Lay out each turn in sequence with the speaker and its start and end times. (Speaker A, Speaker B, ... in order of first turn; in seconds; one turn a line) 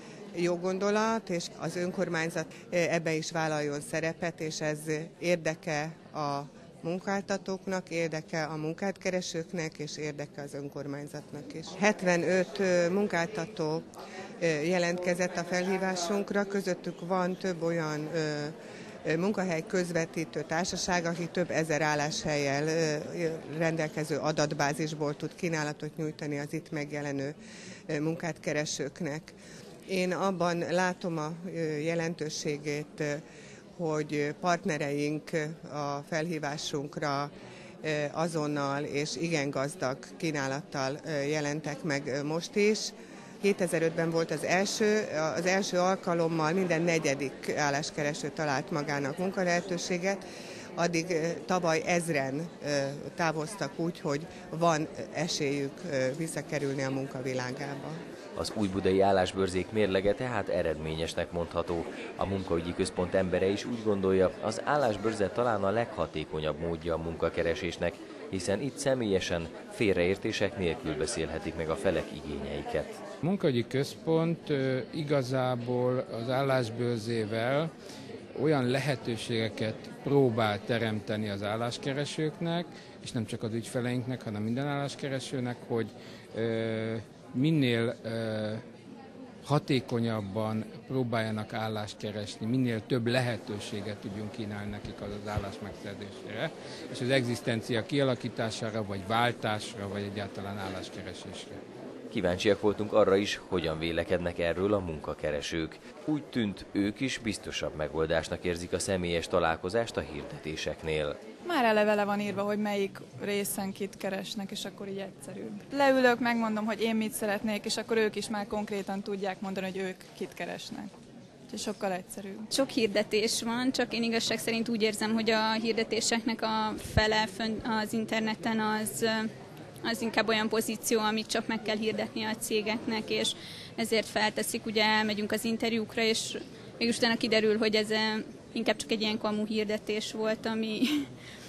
Speaker A: 0.4-13.8
Speaker A: 14.4-18.5
Speaker A: 19.1-27.3
Speaker A: 27.9-29.3
Speaker A: 29.9-33.2
Speaker A: 33.8-37.3
Speaker A: 37.8-50.2
Speaker A: 50.8-58.0
Speaker B: 58.4-73.0
Speaker C: 73.2-77.7
Speaker C: 78.3-88.6
Speaker C: 89.4-101.6
Speaker B: 102.1-111.2
Speaker D: 111.4-120.9
Speaker D: 121.5-122.5
Speaker E: 122.5-129.3
Speaker E: 129.8-141.1